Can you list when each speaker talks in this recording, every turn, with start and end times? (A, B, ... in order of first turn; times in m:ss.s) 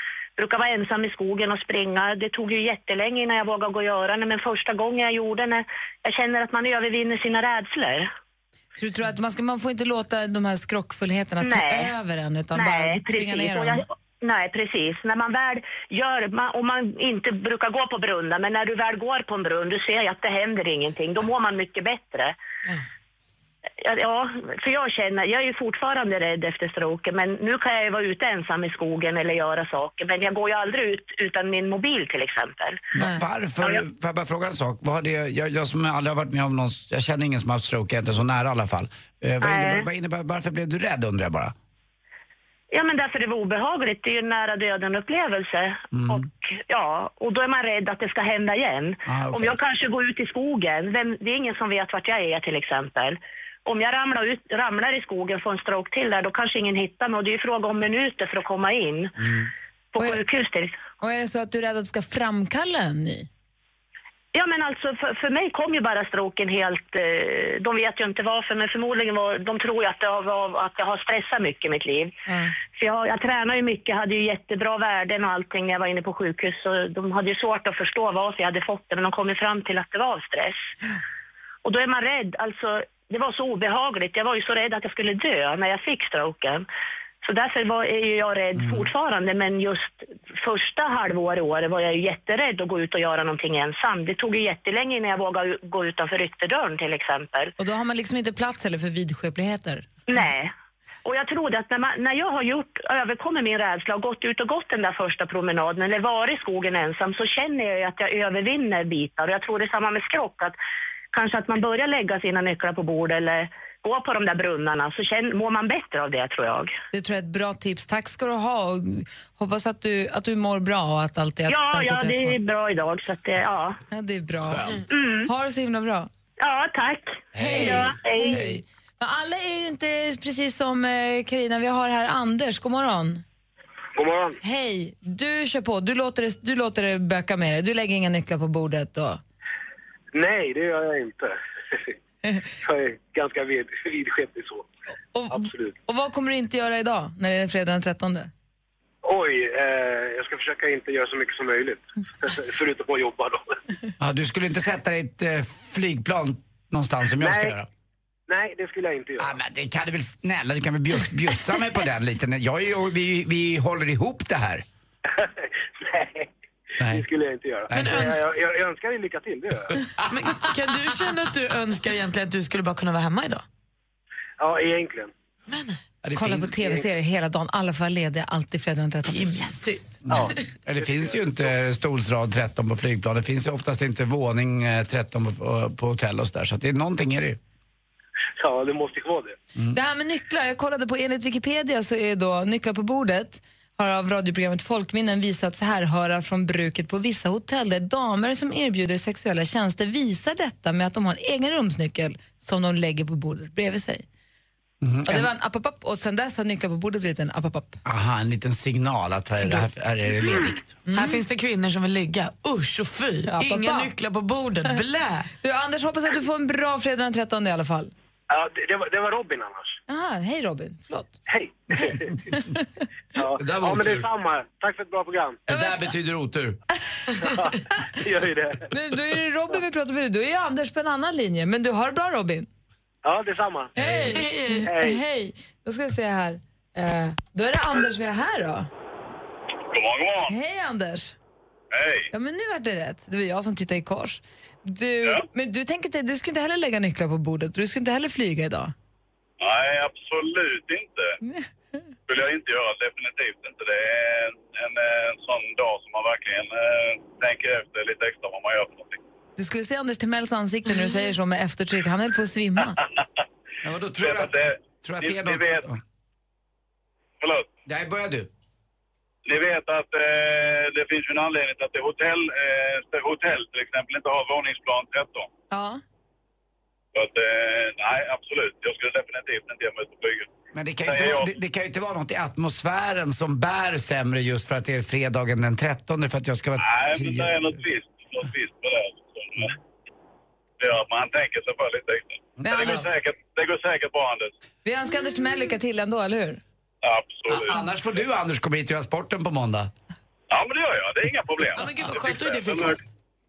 0:00.4-0:08.1 A
0:08.8-0:13.8 B
0:11.4-0:11.9 A
0:12.6-0:22.4 A
0:23.8-0:32.8 A
0:32.9-0:41.5 C
0:33.0-0:33.2 B
0:39.4-0:39.9 A
0:42.7-0:59.2 A
0:45.9-0:46.2 C
0:49.1-0:49.6 C
0:59.2-0:59.5 C
0:59.9-1:00.8 A
1:01.0-1:03.3 B
1:04.3-1:12.2 A
1:12.3-1:12.6 B
1:12.7-1:20.7 A
1:21.6-1:26.7 A
1:27.2-1:37.5 A
1:28.6-1:28.9 C
1:37.6-1:39.9 B
1:40.1-1:40.5 A
1:41.0-1:50.6 A
1:51.1-1:56.7 A
1:56.9-2:02.4 B
2:01.5-2:03.8 A
2:03.9-2:04.7 B
2:04.5-2:04.8 C
2:04.9-2:05.3 A
2:05.3-2:06.1 B
2:06.4-2:08.4 A
2:07.3-2:08.6 C
2:07.4-2:13.2 B
2:14.0-2:14.4 D
2:14.4-2:19.2 B
2:20.1-2:21.9 D
2:22.6-2:24.7 D
2:25.1-2:28.3 B
2:25.3-2:25.8 D
2:29.0-2:33.4 D
2:34.0-2:37.7 C
2:37.2-2:37.6 D
2:38.3-2:39.3 D
2:39.2-2:44.6 C
2:45.1-2:46.3 D
2:46.8-2:47.0 C
2:46.8-2:49.7 D
2:47.7-2:48.1 C
2:47.7-2:48.2 E
2:50.1-2:53.4 E
2:54.4-2:55.1 D
2:55.5-2:55.8 E
2:56.0-2:56.8 C
2:56.2-2:59.8 B
2:59.1-3:00.0 E
3:00.1-3:07.4 C
3:00.1-3:01.3 D
3:08.4-3:09.4 D
3:09.7-3:24.1 B
3:24.8-3:25.3 C
3:25.0-3:27.8 B
3:27.8-3:30.8 C
3:30.9-3:31.2 B
3:30.9-3:35.3 E
3:33.3-3:33.9 B
3:35.4-3:37.9 B
3:38.3-3:39.8 D
3:39.9-3:41.1 B
3:41.3-3:42.2 D
3:43.2-3:45.4 D
3:43.4-3:44.0 C
3:45.5-3:46.6 C
3:45.5-3:45.9 B
3:47.2-3:48.7 D
3:48.7-3:52.5 B
3:53.0-3:53.7 D
3:53.8-3:58.7 B
3:53.8-3:54.1 C
3:54.1-3:54.7 E
3:54.7-3:55.0 D
3:59.7-4:00.3 F
4:00.3-4:01.2 B
4:01.7-4:02.1 F
4:02.1-4:08.7 B
4:09.4-4:11.2 F
4:11.2-4:11.5 B
4:12.1-4:19.0 F
4:19.4-4:22.8 B
4:23.6-4:25.8 C
4:24.0-4:25.7 F
4:27.2-4:27.5 F
4:27.7-4:28.3 C
4:29.3-4:35.3 F
4:35.5-4:35.8 B
4:37.0-4:40.3 F
4:40.5-4:47.6 C
4:40.9-4:41.3 F
4:46.6-4:49.6 F
4:50.6-4:54.3 F
4:52.4-4:52.9 B
4:52.4-4:52.8 C
4:54.6-4:56.4 B
4:56.8-4:57.6 F
4:57.3-4:59.7 C
5:00.3-5:02.8 F
5:01.6-5:02.8 E